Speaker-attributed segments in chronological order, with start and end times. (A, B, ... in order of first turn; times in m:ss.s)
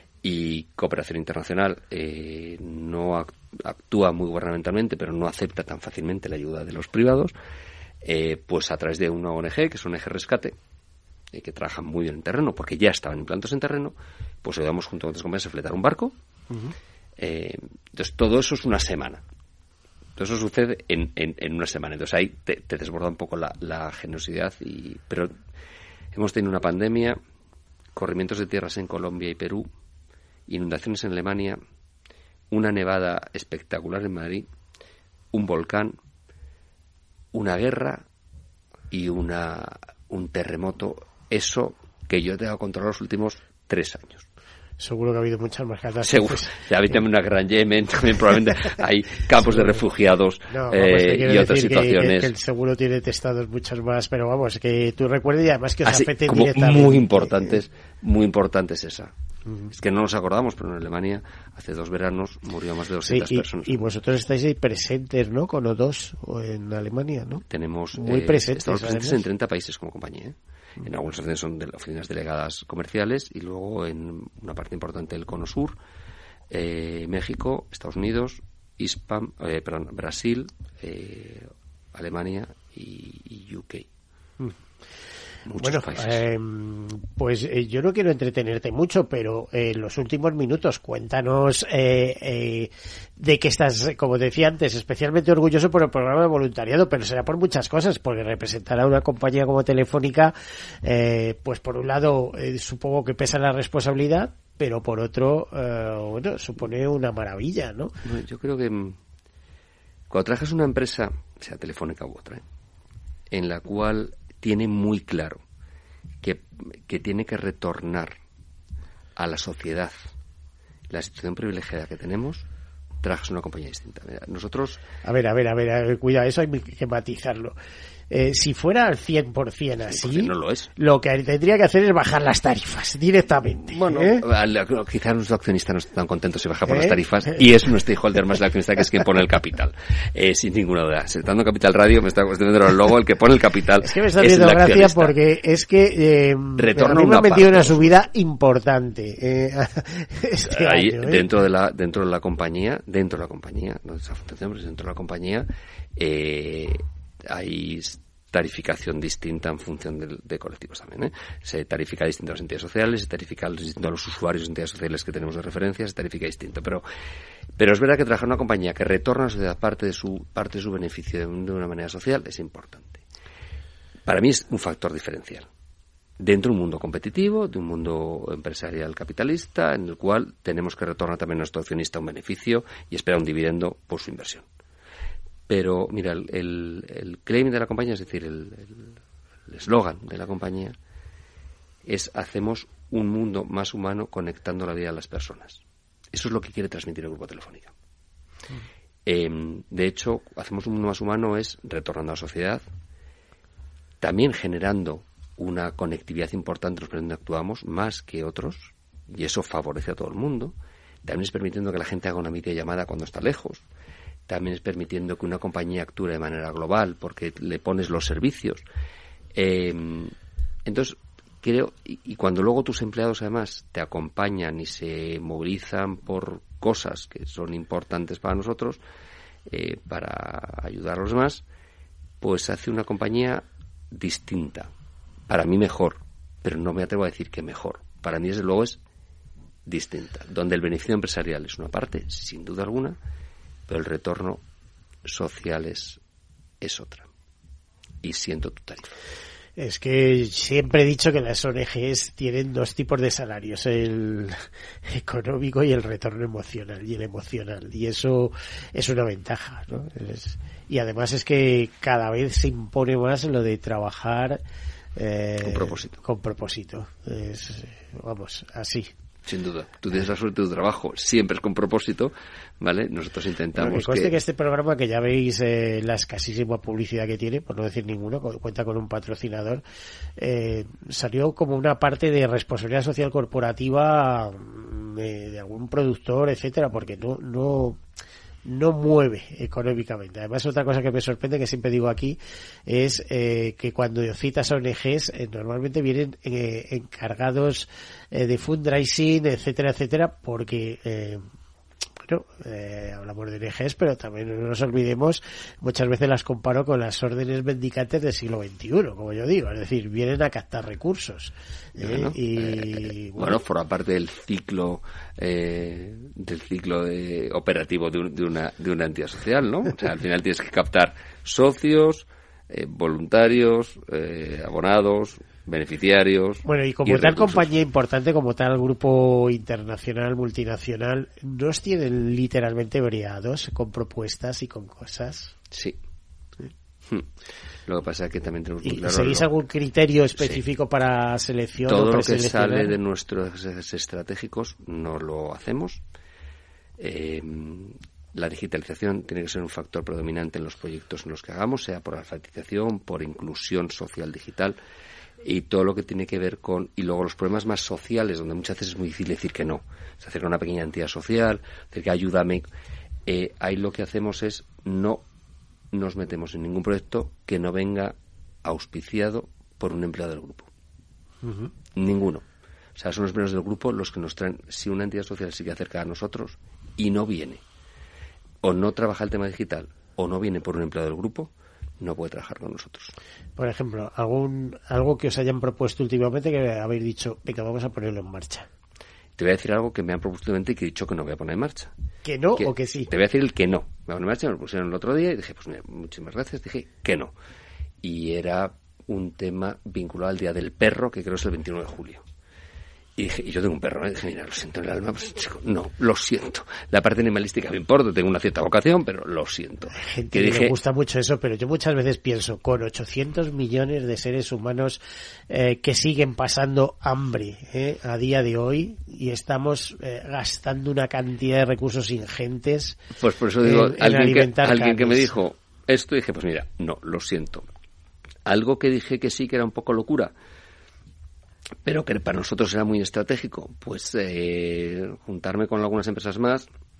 0:00.2-0:07.3 A
0:08.0-0:10.6 A
0:11.3-0:16.2 A
0:17.2-0:19.2 A
0:20.2-0:25.3 A
0:26.1-0:27.2 A
0:27.9-0:29.7 A
0:30.5-0:31.6 A
0:32.5-0:34.5 A
0:35.3-0:36.0 A
0:37.3-0:38.0 A
0:38.9-0:44.2 A
0:44.8-0:46.5 B
0:46.0-0:52.3 A
0:50.5-0:57.4 B
0:55.8-0:59.1 A
0:59.7-1:03.8 A
1:03.0-1:07.4 B
1:07.5-1:15.8 A
1:08.0-1:09.2 B
1:16.5-1:23.9 A
1:25.4-1:26.2 A
1:25.6-1:47.9 B
1:48.0-1:49.0 A
1:50.1-1:52.4 A
1:53.3-1:55.4 A
1:56.2-1:58.2 A
1:59.2-2:00.1 A
2:00.9-2:02.4 A
2:03.0-2:04.8 A
2:05.0-2:07.6 B
2:08.1-2:14.2 B
2:09.9-2:10.7 A
2:13.7-2:25.1 A
2:16.7-2:17.0 B
2:23.8-2:31.3 B
2:26.6-2:27.9 A
2:30.4-2:46.8 A
2:47.6-2:53.0 A
2:54.0-2:55.5 A
2:56.2-3:04.4 A
3:05.5-3:09.0 A
3:09.5-3:10.8 A
3:11.8-3:17.7 A
3:19.0-3:22.6 A
3:24.0-3:33.6 A
3:34.3-3:38.6 A
3:39.3-3:40.1 A
3:40.6-3:48.8 A
3:49.5-3:51.4 A
3:52.2-3:54.7 A
3:55.3-3:58.8 A
3:59.6-4:03.0 A
4:03.7-4:04.4 A
4:05.0-4:06.0 A
4:06.6-4:07.1 A
4:08.0-4:08.9 A
4:09.6-4:24.4 B
4:25.0-4:28.9 B
4:25.4-4:26.0 A
4:29.2-4:34.2 A
4:33.6-4:39.6 B
4:40.2-4:47.8 B
4:48.4-5:01.2 B
5:02.1-5:13.4 B
5:11.8-5:27.5 A
5:26.4-5:35.4 B
5:35.5-5:35.8 A
5:37.6-5:39.3 A
5:38.6-5:42.8 B
5:41.7-5:45.8 A
5:46.8-5:54.6 A
5:55.2-6:02.4 A
6:03.0-6:05.0 A
6:05.7-6:10.5 A
6:11.2-6:11.5 B
6:11.7-6:17.4 A
6:18.4-6:22.9 A
6:23.4-6:28.5 B
6:29.2-6:31.7 A
6:32.0-6:32.9 B
6:32.3-6:37.1 A
6:37.8-6:42.0 A
6:43.0-6:50.6 A
6:49.7-7:02.8 B
7:03.0-7:07.5 A
7:03.4-7:05.1 B
7:08.2-7:10.1 A
7:11.6-7:16.5 A